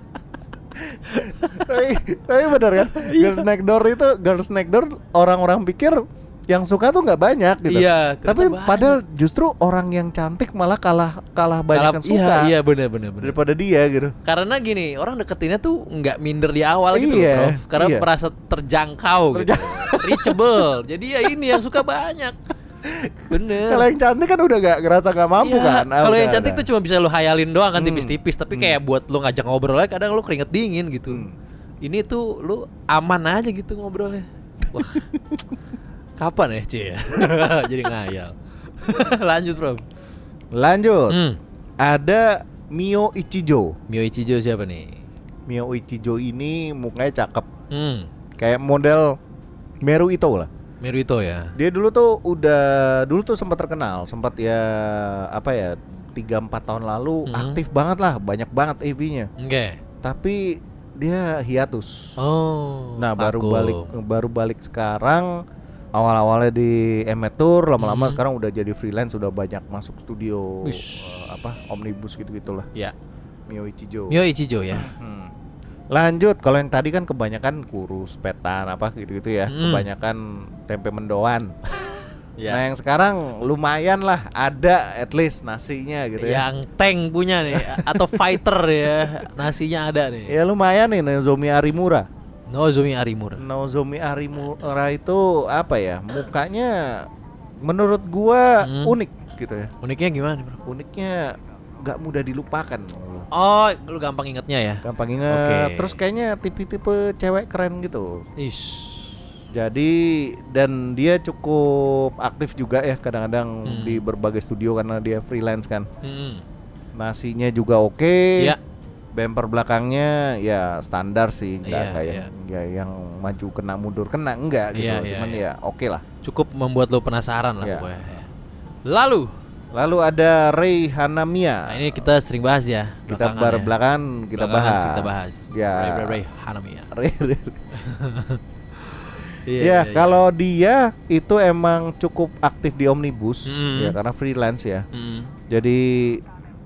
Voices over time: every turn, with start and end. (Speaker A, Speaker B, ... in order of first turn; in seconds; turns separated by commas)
Speaker A: 0.8-12.5, Speaker B: 1.1-1.7, Speaker B: 2.8-3.5, Speaker B: 7.7-9.0, Speaker B: 11.7-13.4, Speaker A: 13.2-14.2, Speaker B: 14.2-22.4, Speaker A: 16.9-18.1, Speaker A: 19.3-20.5, Speaker A: 22.8-26.7, Speaker B: 23.3-23.9, Speaker B: 25.4-31.3, Speaker A: 27.8-28.8, Speaker A: 31.1-31.4, Speaker B: 31.8-35.0, Speaker B: 36.2-39.9, Speaker A: 40.5-41.2, Speaker B: 41.1-41.4, Speaker A: 41.8-43.8, Speaker B: 43.9-45.0, Speaker A: 45.5-47.5, Speaker B: 47.7-48.1, Speaker A: 48.4-49.2, Speaker A: 49.8-50.5, Speaker B: 50.8-51.5, Speaker A: 51.6-59.3, Speaker B: 57.3-57.6, Speaker B: 59.4-59.8, Speaker A: 60.0-62.1, Speaker B: 62.2-63.9, Speaker A: 63.0-65.4, Speaker A: 66.0-72.7, Speaker B: 67.8-68.2, Speaker B: 70.6-71.1, Speaker A: 73.5-74.2, Speaker B: 74.1-74.9, Speaker A: 74.7-75.3, Speaker A: 75.9-81.5, Speaker B: 79.5-79.9, Speaker B: 82.4-82.6, Speaker A: 82.5-86.5, Speaker B: 86.2-90.4, Speaker A: 87.5-88.4, Speaker A: 88.9-89.3, Speaker A: 90.3-92.1, Speaker B: 92.5-93.4, Speaker A: 93.4-97.1, Speaker A: 97.6-99.7, Speaker B: 98.6-99.0, Speaker B: 99.8-100.6, Speaker A: 100.7-103.3, Speaker B: 103.3-106.0, Speaker A: 104.8-108.2, Speaker B: 108.4-109.2, Speaker A: 109.5-115.9, Speaker B: 113.7-114.0, Speaker B: 116.0-116.5, Speaker A: 117.0-118.5, Speaker A: 119.1-126.0, Speaker B: 121.7-122.3, Speaker B: 124.8-125.4, Speaker B: 126.2-128.3, Speaker A: 127.6-128.1, Speaker B: 128.9-129.3, Speaker A: 129.7-132.0, Speaker B: 131.7-133.7, Speaker A: 133.1-136.2, Speaker B: 134.4-136.9, Speaker A: 136.9-137.6, Speaker B: 137.7-140.2, Speaker A: 139.6-144.9, Speaker B: 143.5-144.0, Speaker B: 144.9-145.3, Speaker A: 145.5-146.2